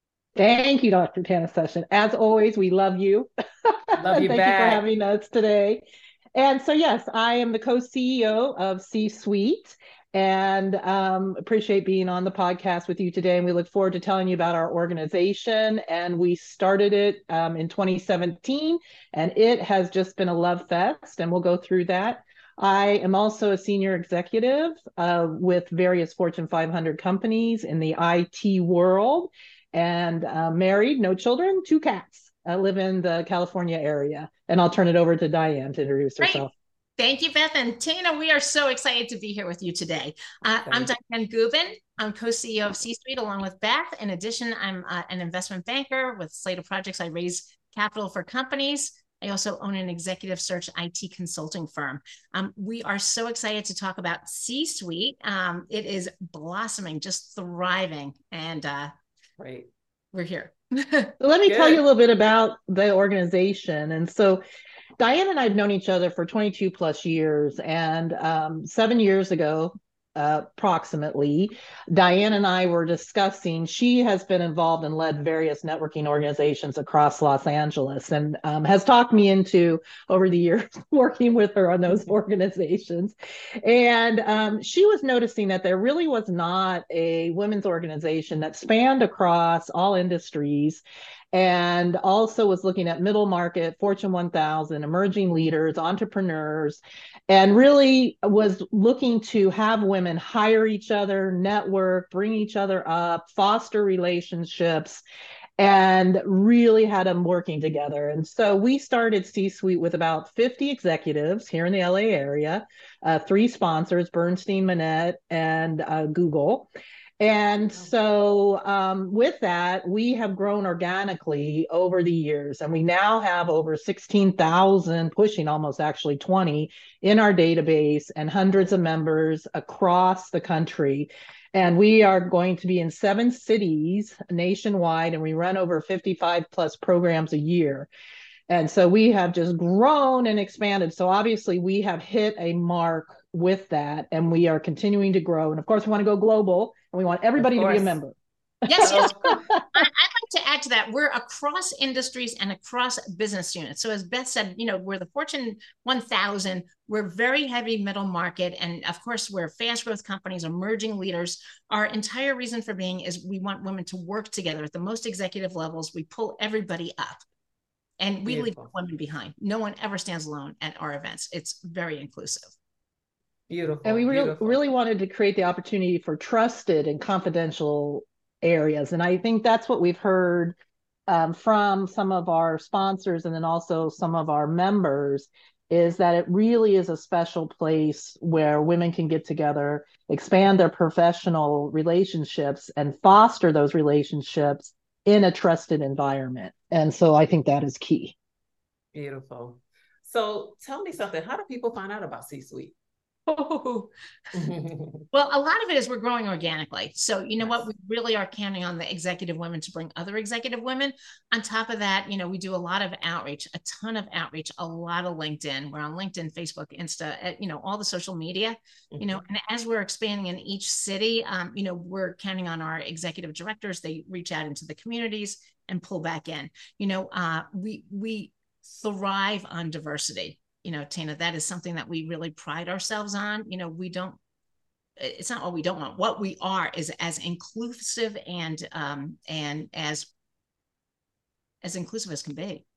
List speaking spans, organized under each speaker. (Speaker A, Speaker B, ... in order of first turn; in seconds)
Speaker A: 0.4-5.8, 6.3-36.5, 61.2-64.4, 65.0-105.0, 105.6-116.7, 117.2-137.9, 138.5-149.8, 173.8-180.5, 181.1-198.1
Speaker B: 3.9-4.8, 40.6-40.9, 59.4-59.7, 61.5-61.8, 147.4-147.9, 148.8-149.5, 168.2-168.7, 173.5-174.6, 198.9-202.7, 204.3-205.1, 207.4-207.7, 218.9-219.2
Speaker C: 36.2-58.9, 60.1-61.1, 148.7-167.2, 168.0-172.5, 203.3-203.9, 205.1-234.2, 235.0-240.1, 241.6-242.6